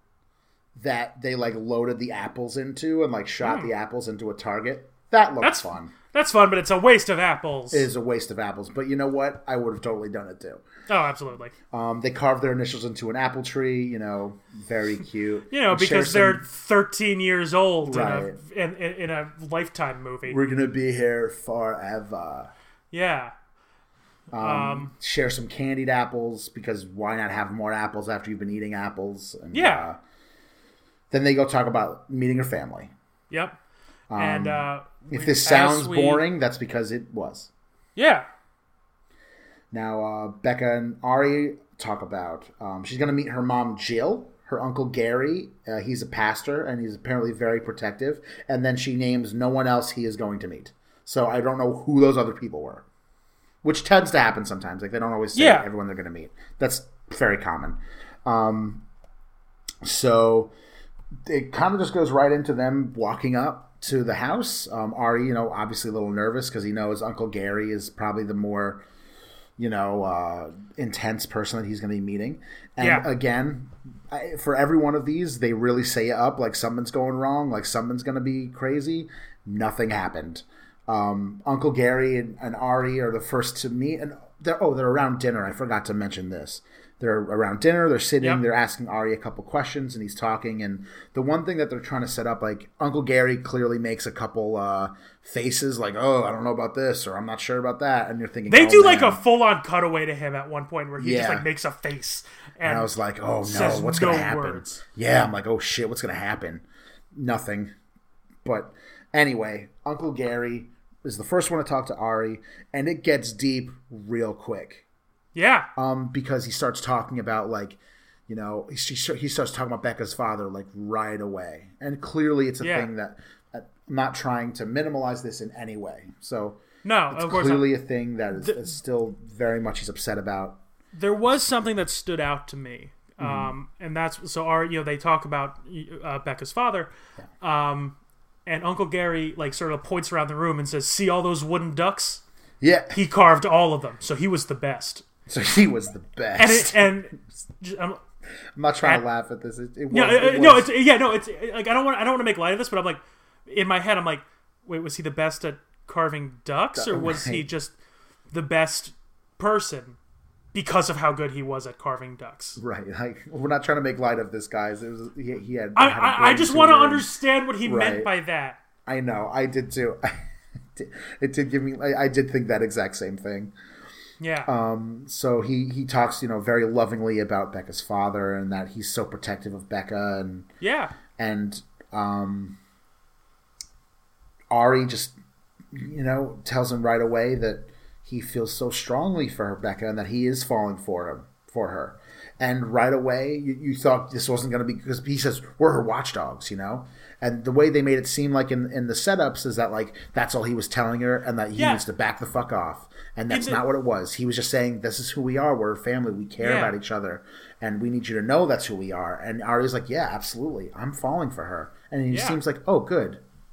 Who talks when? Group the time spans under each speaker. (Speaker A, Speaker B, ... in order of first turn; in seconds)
Speaker A: 0.8-5.9, 7.7-10.6, 11.7-16.4, 17.8-18.4, 20.3-22.5, 24.3-30.0, 31.1-32.9, 34.1-37.5, 39.7-52.9, 53.6-58.9, 59.8-60.5, 61.3-68.8, 69.6-99.2, 101.0-101.5, 102.6-107.7, 108.4-114.8, 115.8-130.6, 133.2-133.5, 142.6-143.0, 145.3-147.0, 148.6-150.7, 156.8-157.5, 162.6-167.1, 167.6-168.1, 168.9-170.2, 170.8-173.5, 174.4-180.5, 181.2-182.6, 184.5-185.2, 185.7-213.2
Speaker B: 3.4-3.7, 5.4-7.9, 10.9-11.5, 15.5-20.4, 22.9-23.3, 24.4-24.9, 29.5-29.9, 33.3-33.6, 34.1-36.3, 38.0-38.3, 55.4-55.7, 72.8-73.1, 98.5-102.9, 103.4-104.7, 115.3-115.7, 122.6-122.9, 126.8-127.8, 128.4-128.7, 130.9-142.2, 142.9-145.1, 146.4-148.0, 149.9-157.7, 158.3-160.0, 160.5-162.6, 165.8-168.6, 174.2-174.5, 180.6-180.9, 201.6-201.8, 203.3-203.6, 206.4-206.8, 212.1-212.4